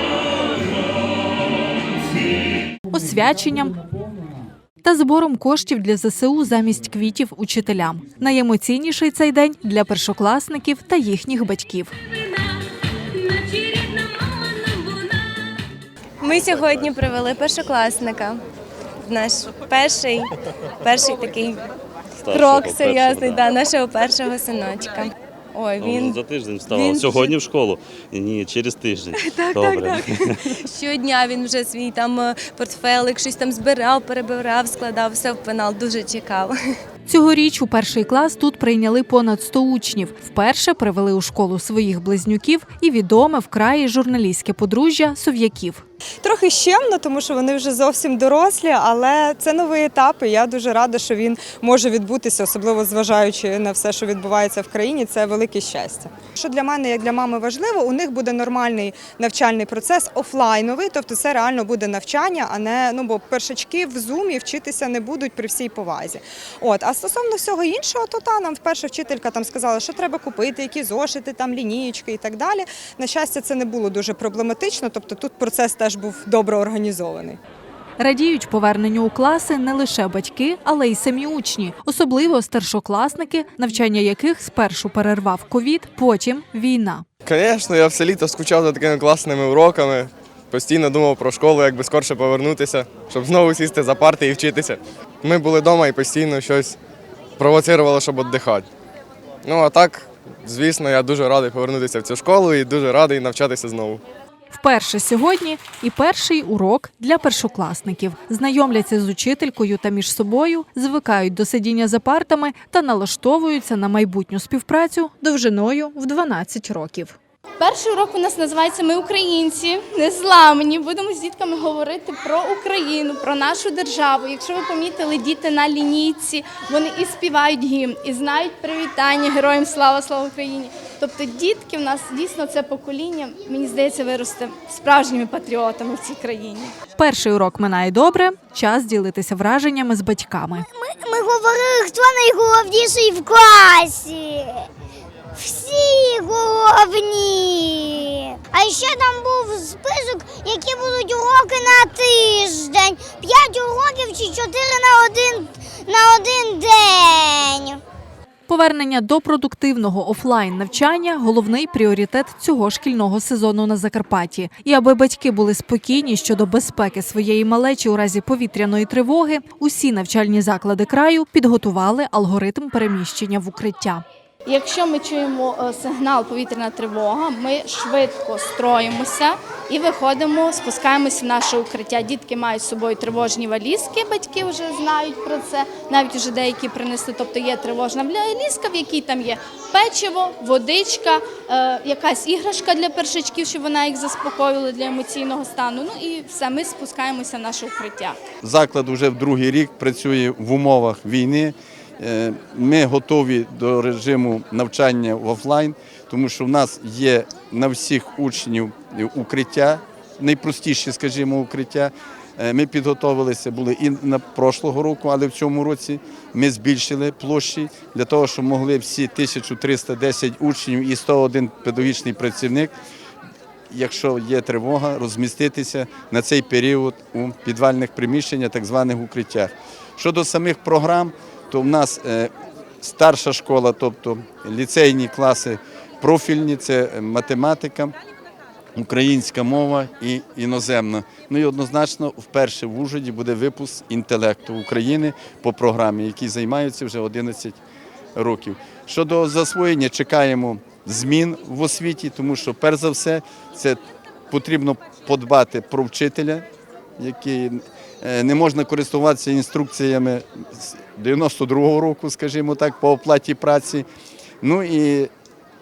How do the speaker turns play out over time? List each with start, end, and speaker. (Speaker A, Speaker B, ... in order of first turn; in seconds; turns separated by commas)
Speaker A: 2.9-3.8, Speaker A: 4.8-11.9, Speaker B: 16.2-18.4, Speaker B: 19.1-20.3, Speaker B: 20.8-21.6, Speaker C: 22.2-23.5, Speaker B: 22.4-26.0, Speaker C: 25.8-30.4, Speaker B: 26.8-27.0, Speaker B: 29.3-29.9, Speaker B: 30.7-36.5, Speaker A: 37.1-45.8, Speaker D: 46.2-77.4, Speaker A: 78.0-87.0, Speaker E: 87.2-96.8, Speaker E: 97.4-98.7, Speaker E: 99.5-104.0, Speaker A: 104.5-117.2, Speaker F: 117.6-136.7, Speaker A: 137.0-140.7, Speaker G: 140.7-144.7, Speaker G: 145.4-157.8, Speaker A: 158.5-174.0, Speaker F: 174.5-198.2, Speaker H: 198.4-222.7, Speaker H: 223.7-237.9, Speaker H: 238.8-247.6, Speaker H: 248.2-253.8, Speaker H: 254.3-256.4, Speaker H: 257.0-263.9, Speaker H: 264.4-265.1